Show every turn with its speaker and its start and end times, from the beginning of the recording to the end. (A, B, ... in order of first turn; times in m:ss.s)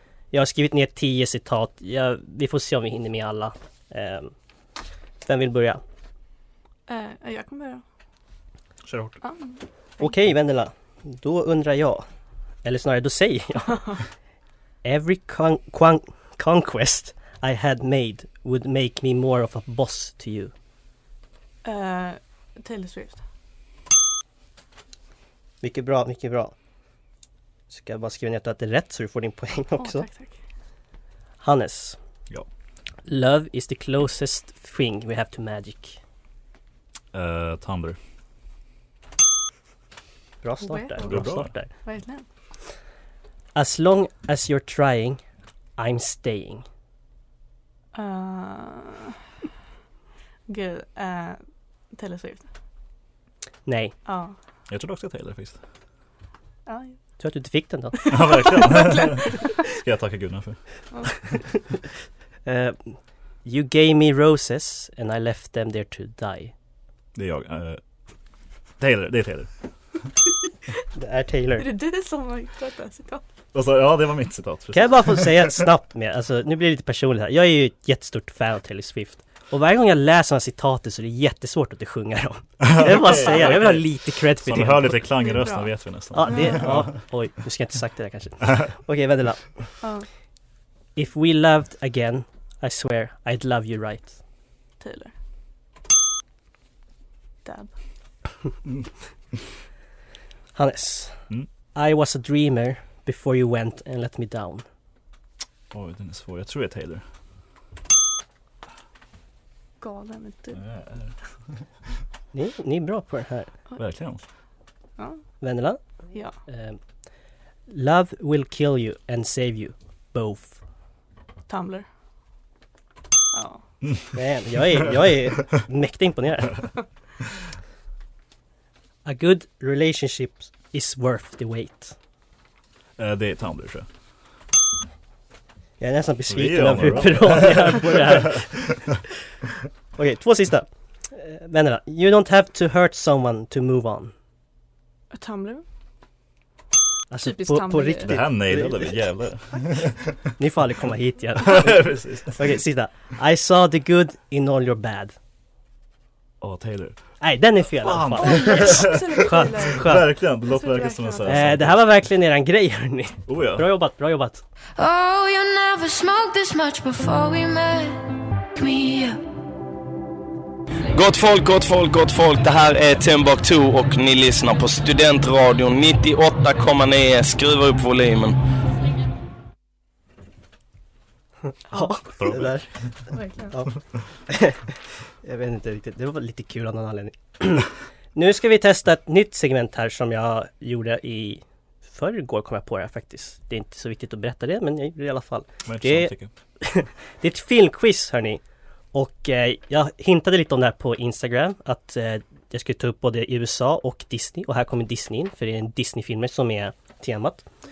0:00.3-0:04.3 A
0:05.2-0:05.8 A
0:06.9-0:07.8 B
0:08.8-0:09.2 C
0:09.2-0:10.1 B
0:10.0-0:12.0 A
0:12.6-0:14.0 A
0:14.8-0:20.5 A
0:21.6-0:23.2 B
0:25.6-0:26.5 A
0:27.7-0:30.1 A
0:29.8-0:30.4 B
0:31.4-0:32.0 A
0:33.1-0:36.0 A
0:37.1-0:38.0 C
0:40.4-0:41.7 A
0:40.7-0:41.0 B
0:41.0-0:41.5 C
0:41.8-0:42.2 B
0:43.6-0:45.2 A
0:45.8-0:46.6 A
0:47.9-0:49.2 B
0:50.5-0:52.5 B
0:53.7-0:53.9 A
0:54.0-0:54.4 B
0:54.7-0:55.6 C
0:56.7-0:57.0 B
0:57.2-0:58.0 A
0:58.0-0:59.5 B
0:58.1-1:00.6 C
1:02.5-1:06.5 A
1:07.2-1:07.8 C
1:08.8-1:09.5 C
1:11.0-1:11.7 A
1:11.6-1:13.2 B
1:13.5-1:15.5 C
1:14.7-1:25.0 A
1:22.6-1:27.0 C
1:25.2-1:25.7 B
1:26.1-1:29.5 A
1:26.2-1:26.7 B
1:31.0-1:34.2 A
1:34.8-1:35.1 B
1:37.4-1:37.7 B
1:40.6-1:41.2 A
1:41.8-1:44.6 A
1:45.7-1:47.0 C
1:49.8-1:50.6 B
1:50.5-1:51.1 C
1:52.3-1:53.5 A
1:53.8-1:54.2 C
1:55.4-1:55.8 A
1:56.5-1:56.8 A
1:57.7-2:00.6 A
2:01.5-2:01.9 B
2:03.3-2:03.6 B
2:04.1-2:06.6 A
2:09.0-2:12.0 A
2:13.0-2:13.9 C
2:15.8-2:18.5 A
2:16.3-2:18.8 C
2:20.0-2:24.1 A
2:25.1-2:25.6 B
2:27.1-2:29.0 A
2:27.2-2:28.1 B
2:28.0-2:30.1 C
2:30.4-2:35.2 A
2:31.4-2:32.5 C
2:36.4-2:37.0 C
2:37.2-2:40.1 A
2:37.8-2:41.8 C
2:38.2-2:41.4 B
2:41.3-2:44.4 A
2:43.3-2:43.7 C
2:44.8-2:48.0 D
2:48.5-2:49.2 D
2:50.9-2:58.4 E
3:01.7-3:02.7 A
3:02.2-3:02.5 C
3:03.1-3:03.5 B
3:04.3-3:04.6 A
3:05.2-3:18.4 A
3:15.7-3:16.3 C
3:18.9-3:27.4 A